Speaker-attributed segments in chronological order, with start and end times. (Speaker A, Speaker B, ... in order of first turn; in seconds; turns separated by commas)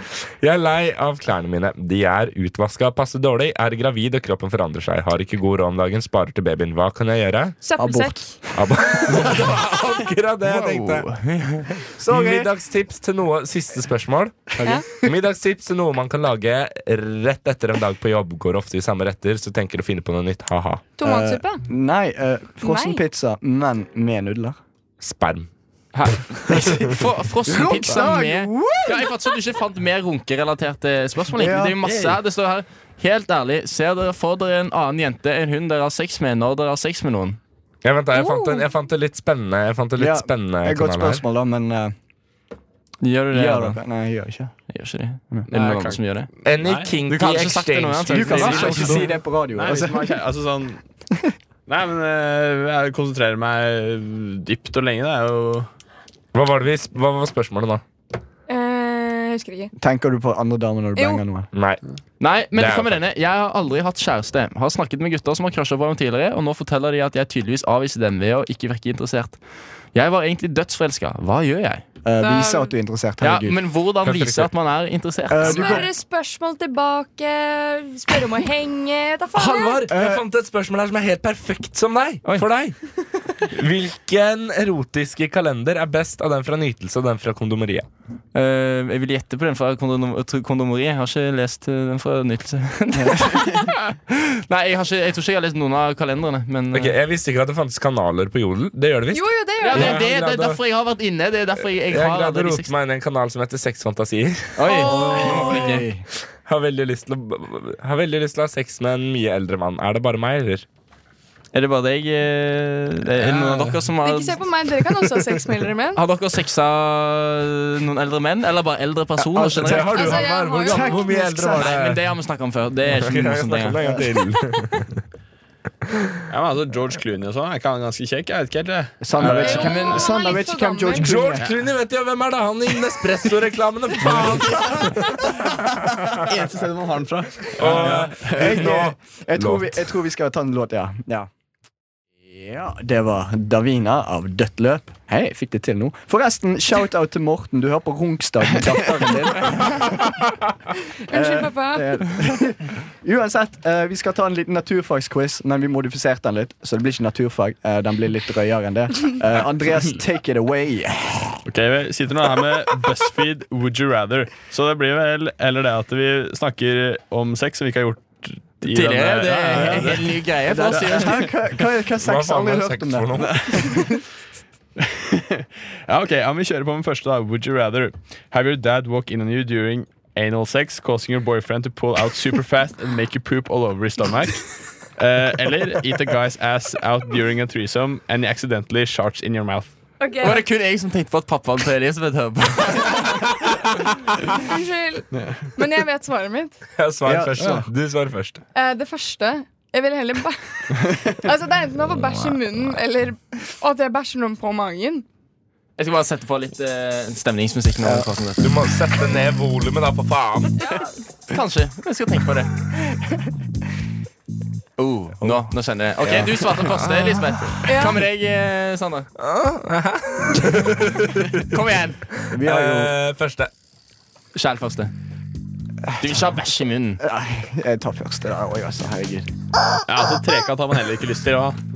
Speaker A: 0.4-7.6, Speaker B: 7.6-8.3, Speaker C: 7.8-8.6, Speaker A: 8.5-11.1, Speaker D: 10.4-11.8, Speaker C: 11.9-12.5, Speaker A: 12.1-20.8, Speaker B: 21.0-21.6, Speaker C: 21.0-24.6, Speaker B: 22.6-23.0, Speaker A: 25.0-25.5, Speaker D: 25.9-37.4, Speaker C: 27.5-29.1, Speaker C: 31.3-31.8, Speaker E: 31.8-32.1, Speaker A: 37.8-41.2, Speaker B: 38.1-38.6, Speaker C: 40.0-41.9, Speaker D: 43.0-43.8, Speaker C: 43.3-44.5, Speaker D: 44.7-46.3, Speaker E: 45.5-46.0, Speaker A: 46.4-49.1, Speaker E: 46.6-47.0, Speaker D: 47.1-49.0, Speaker C: 48.1-50.1, Speaker E: 49.5-50.8, Speaker E: 51.7-55.7, Speaker A: 56.3-57.8, Speaker B: 58.5-59.7, Speaker C: 59.8-61.5, Speaker B: 61.0-61.2, Speaker A: 61.5-61.8, Speaker D: 62.2-69.4, Speaker A: 62.5-63.0, Speaker D: 69.9-71.8, Speaker C: 72.0-73.6, Speaker B: 72.2-72.7, Speaker D: 73.2-75.9, Speaker A: 74.0-74.5, Speaker C: 75.3-75.9, Speaker B: 75.4-79.8, Speaker A: 79.3-87.9, Speaker C: 79.9-80.2, Speaker D: 88.3-96.9, Speaker C: 92.9-93.3, Speaker A: 96.7-100.6, Speaker B: 99.1-100.0, Speaker D: 99.6-102.7, Speaker A: 101.8-105.2, Speaker C: 104.6-106.0, Speaker B: 104.6-105.8, Speaker D: 104.7-105.8, Speaker A: 106.4-110.7, Speaker D: 111.5-114.4, Speaker C: 113.2-113.8, Speaker B: 114.0-116.0, Speaker D: 115.9-120.0, Speaker C: 119.2-121.7, Speaker A: 119.6-122.0, Speaker B: 119.9-121.1, Speaker D: 121.5-123.8, Speaker A: 123.0-124.9, Speaker C: 123.8-124.1, Speaker E: 126.3-129.8, Speaker C: 129.0-131.5, Speaker D: 129.2-130.1, Speaker B: 129.3-131.1, Speaker A: 130.9-136.2, Speaker C: 134.1-135.0, Speaker E: 136.2-138.7, Speaker A: 137.6-139.8, Speaker C: 138.2-141.3, Speaker C: 142.2-150.2, Speaker B: 151.1-151.8, Speaker C: 151.1-161.4, Speaker E: 161.4-171.3, Speaker D: 168.6-171.3, Speaker C: 169.6-169.8, Speaker C: 170.4-174.0, Speaker A: 172.0-173.8, Speaker E: 173.2-173.6, Speaker E: 174.8-189.7, Speaker B: 190.0-190.4, Speaker D: 190.2-193.2, Speaker B: 194.3-196.6, Speaker E: 195.1-195.5, Speaker A: 196.8-198.4, Speaker C: 197.0-197.7, Speaker B: 198.5-205.0, Speaker D: 205.8-208.6, Speaker A: 208.4-210.7, Speaker D: 211.3-212.5, Speaker D: 214.8-219.1, Speaker A: 216.9-217.6, Speaker B: 217.7-218.0, Speaker A: 219.2-221.5, Speaker D: 221.4-222.0, Speaker A: 222.1-223.5, Speaker C: 222.3-222.9, Speaker D: 224.3-224.9, Speaker D: 226.0-227.0, Speaker C: 227.0-229.3, Speaker E: 229.9-231.6